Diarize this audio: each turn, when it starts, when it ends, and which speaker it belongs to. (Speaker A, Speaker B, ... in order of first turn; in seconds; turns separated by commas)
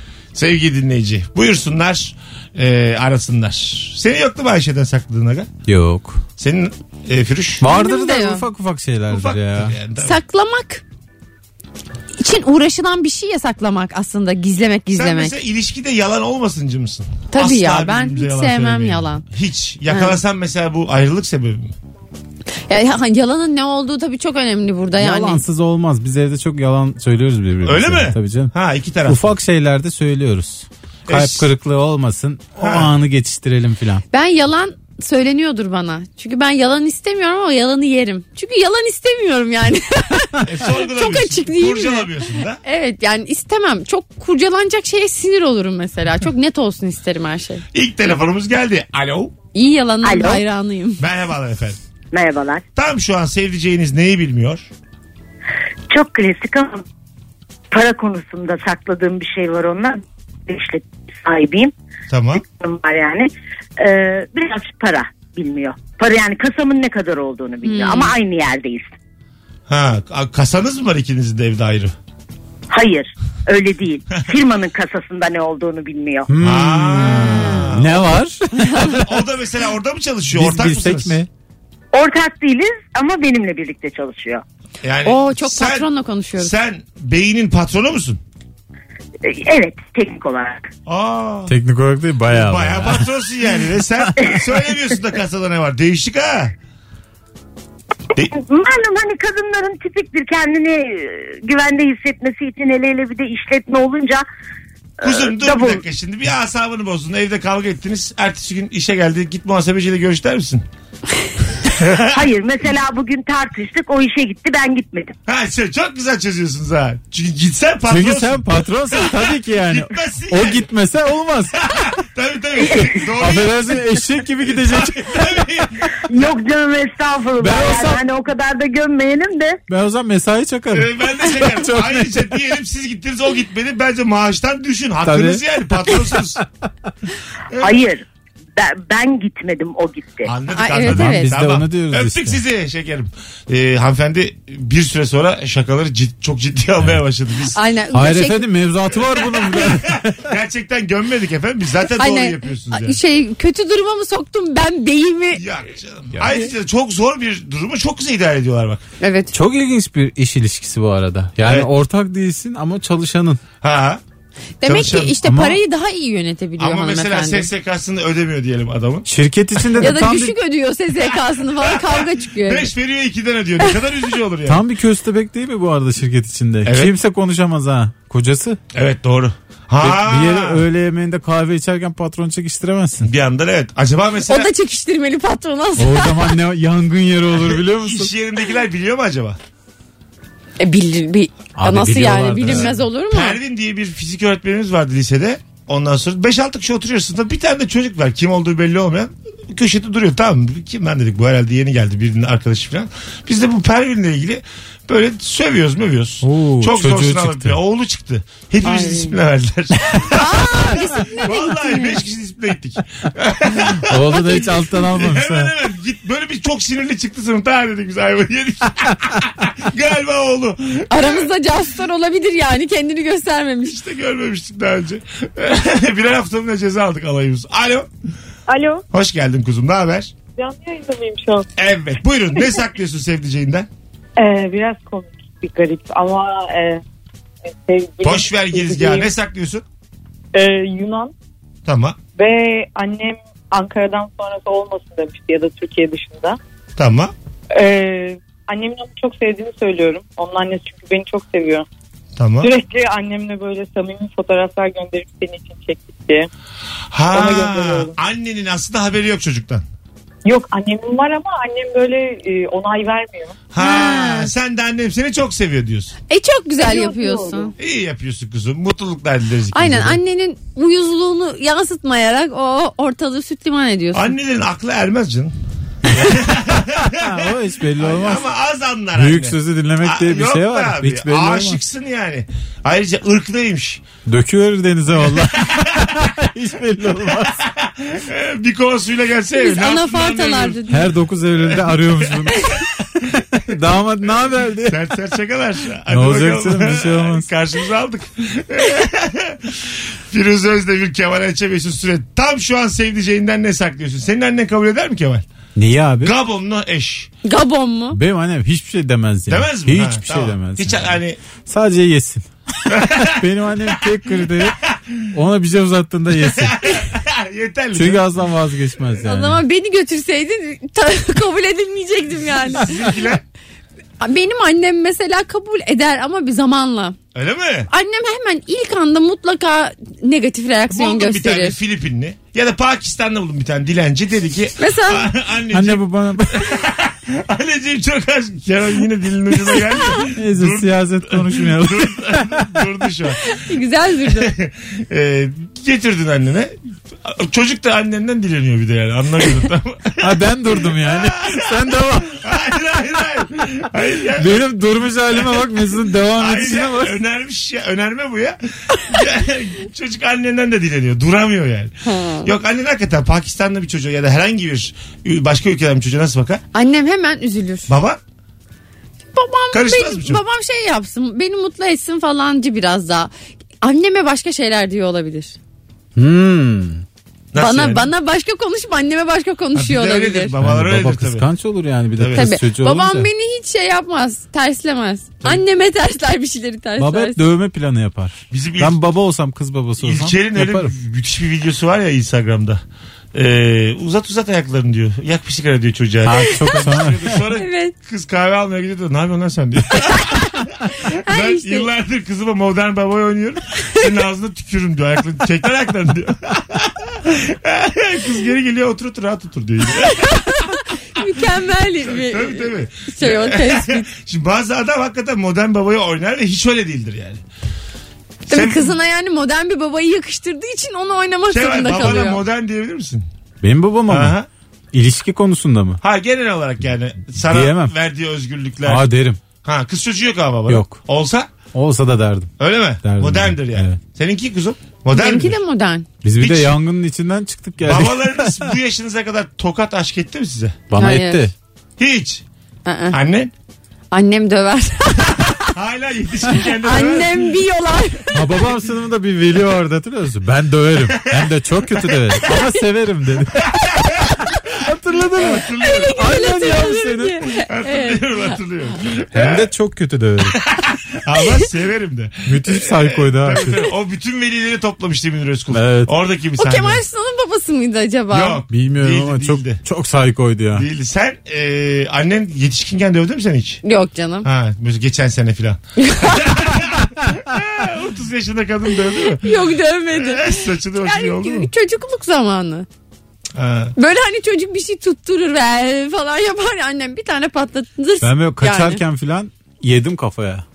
Speaker A: 0.3-5.5, Speaker B: 5.7-6.2, Speaker A: 6.4-7.6, Speaker B: 7.6-9.7, Speaker C: 7.7-8.4, Speaker A: 9.1-10.2, Speaker C: 10.0-10.8, Speaker C: 12.2-15.3, Speaker A: 14.9-21.7, Speaker C: 17.3-19.2, Speaker C: 19.9-20.2, Speaker C: 22.7-25.4, Speaker B: 25.0-28.5, Speaker A: 27.6-29.2, Speaker B: 29.1-34.0, Speaker A: 31.1-31.5, Speaker A: 32.6-32.9, Speaker C: 34.1-47.6, Speaker A: 40.4-42.6, Speaker A: 47.7-49.3, Speaker C: 49.5-51.0, Speaker D: 50.0-50.4, Speaker A: 51.0-51.8, Speaker D: 52.1-52.6, Speaker A: 52.8-54.7, Speaker D: 55.9-56.8, Speaker D: 57.7-61.7, Speaker A: 62.1-62.4, Speaker D: 62.4-68.9, Speaker C: 67.6-68.1, Speaker A: 69.7-71.9, Speaker D: 72.7-76.3, Speaker B: 76.3-79.1, Speaker A: 76.4-78.1, Speaker C: 77.2-77.6, Speaker A: 78.7-81.2, Speaker B: 80.3-81.3, Speaker D: 81.9-84.4, Speaker A: 84.8-88.2, Speaker C: 85.0-86.5, Speaker D: 89.2-90.7, Speaker A: 90.8-91.5, Speaker B: 91.5-93.1, Speaker A: 92.3-96.5, Speaker D: 98.3-104.2, Speaker D: 105.0-105.8, Speaker A: 105.0-110.6, Speaker A: 111.6-112.2, Speaker D: 112.1-115.2, Speaker A: 115.3-120.7, Speaker B: 117.9-121.6, Speaker A: 121.6-123.8, Speaker B: 123.2-125.4, Speaker A: 124.4-125.9, Speaker D: 126.1-129.6, Speaker B: 127.4-128.0, Speaker B: 129.7-132.3, Speaker A: 130.7-136.4, Speaker B: 135.0-136.2, Speaker A: 137.5-137.8, Speaker D: 137.6-138.0, Speaker D: 138.6-140.3, Speaker A: 140.2-147.6, Speaker C: 140.5-141.3, Speaker B: 140.8-142.4, Speaker C: 147.5-148.4, Speaker B: 147.9-150.3, Speaker A: 148.9-153.0, Speaker C: 152.0-155.4, Speaker A: 155.3-158.8, Speaker C: 159.0-159.3, Speaker B: 159.3-163.4, Speaker A: 163.6-164.0, Speaker C: 164.6-167.5, Speaker A: 164.6-165.2, Speaker B: 165.2-165.6, Speaker A: 166.6-169.1, Speaker B: 169.1-170.3, Speaker C: 169.8-172.7, Speaker A: 171.1-174.6, Speaker B: 174.4-178.6, Speaker A: 176.6-176.9, Speaker A: 178.7-180.6, Speaker B: 179.8-183.1, Speaker A: 183.0-184.5, Speaker C: 184.3-186.2, Speaker B: 185.8-188.1, Speaker A: 187.3-189.4, Speaker C: 190.6-193.4, Speaker B: 191.6-192.8, Speaker A: 192.4-221.3, Speaker B: 206.2-207.6, Speaker C: 208.6-209.2, Speaker C: 209.9-212.0, Speaker B: 213.8-215.5, Speaker C: 220.9-223.8, Speaker A: 223.6-227.9, Speaker E: 228.5-228.8, Speaker A: 228.9-230.1, Speaker E: 230.3-231.5, Speaker A: 231.6-233.7, Speaker E: 234.2-236.8, Speaker E: 237.4-239.1, Speaker A: 238.0-239.6, Speaker E: 240.3-241.1, Speaker A: 241.7-242.0, Speaker E: 242.1-246.4, Speaker A: 246.8-247.1, Speaker E: 247.5-251.7, Speaker A: 252.2-252.5, Speaker E: 252.4-256.3, Speaker A: 256.9-259.6, Speaker E: 257.1-257.9, Speaker E: 260.2-263.4, Speaker A: 263.5-265.9, Speaker C: 263.6-264.3, Speaker C: 266.1-267.5, Speaker E: 266.6-267.5, Speaker A: 267.6-270.0, Speaker C: 269.5-274.1, Speaker A: 273.9-275.3, Speaker B: 275.9-278.3, Speaker A: 275.9-283.8, Speaker B: 278.9-281.6, Speaker B: 284.1-287.4, Speaker A: 285.0-286.0, Speaker A: 287.2-290.8, Speaker C: 289.4-290.8, Speaker B: 290.7-292.6, Speaker A: 291.4-293.2, Speaker B: 293.3-294.8, Speaker A: 294.6-305.2, Speaker B: 295.9-297.3, Speaker B: 305.6-306.1, Speaker A: 306.0-307.1, Speaker C: 307.2-308.0, Speaker B: 307.9-310.9, Speaker A: 309.3-311.2, Speaker B: 311.5-312.2, Speaker A: 312.7-315.0, Speaker B: 312.8-314.6, Speaker B: 315.1-316.6, Speaker A: 316.2-318.0, Speaker B: 317.7-319.4, Speaker C: 319.0-322.9, Speaker A: 322.5-323.2, Speaker C: 324.0-326.9, Speaker A: 327.1-327.7, Speaker C: 327.7-331.6, Speaker A: 330.7-343.3, Speaker C: 334.6-335.1, Speaker B: 335.5-336.6, Speaker B: 340.1-342.5, Speaker C: 343.2-344.3, Speaker A: 344.0-346.5, Speaker A: 347.0-354.4, Speaker B: 350.0-352.2, Speaker B: 354.2-357.0, Speaker A: 355.1-366.4, Speaker C: 361.8-362.3, Speaker C: 366.5-367.7, Speaker A: 367.7-368.0, Speaker C: 369.1-373.1, Speaker A: 369.5-370.2, Speaker C: 373.6-375.4, Speaker B: 375.9-376.8, Speaker A: 377.3-377.9, Speaker C: 377.4-380.3, Speaker A: 379.5-381.3, Speaker B: 380.4-383.1, Speaker A: 382.0-382.3, Speaker C: 382.1-387.2, Speaker B: 386.8-390.7, Speaker A: 388.3-388.8, Speaker A: 389.8-392.6, Speaker A: 393.1-410.4, Speaker B: 396.0-397.2, Speaker C: 397.3-397.7, Speaker C: 399.9-400.2, Speaker C: 401.0-401.7, Speaker C: 409.8-413.9, Speaker A: 411.8-417.2, Speaker A: 418.3-418.7, Speaker C: 418.3-422.2, Speaker A: 421.3-423.1, Speaker B: 423.4-424.1, Speaker A: 423.9-424.3, Speaker B: 424.7-425.8, Speaker A: 425.8-428.9, Speaker B: 427.3-427.7, Speaker B: 428.6-429.2, Speaker A: 429.4-431.3, Speaker B: 430.5-430.8, Speaker B: 431.5-433.8, Speaker A: 432.4-435.4, Speaker C: 434.9-435.9, Speaker B: 436.0-438.5, Speaker A: 436.2-436.6, Speaker A: 437.6-440.6, Speaker B: 440.7-441.3, Speaker C: 440.8-441.3, Speaker A: 441.8-442.2, Speaker C: 442.6-443.0, Speaker A: 442.9-443.3, Speaker C: 443.9-445.5, Speaker A: 445.2-447.4, Speaker C: 446.6-448.2, Speaker B: 448.1-453.5, Speaker A: 450.9-452.1, Speaker A: 453.4-454.1, Speaker B: 454.6-457.2, Speaker A: 455.1-455.9, Speaker C: 455.6-458.0, Speaker A: 457.5-459.5, Speaker B: 459.1-460.4, Speaker A: 460.5-466.8, Speaker B: 462.2-463.6, Speaker B: 465.5-465.9, Speaker C: 466.4-468.4, Speaker A: 468.1-469.6, Speaker B: 468.5-470.6, Speaker A: 470.5-473.6, Speaker C: 473.6-474.3, Speaker A: 474.2-481.5, Speaker C: 475.8-476.6, Speaker C: 479.2-482.7, Speaker A: 483.3-483.7, Speaker C: 483.8-488.8, Speaker B: 488.0-490.4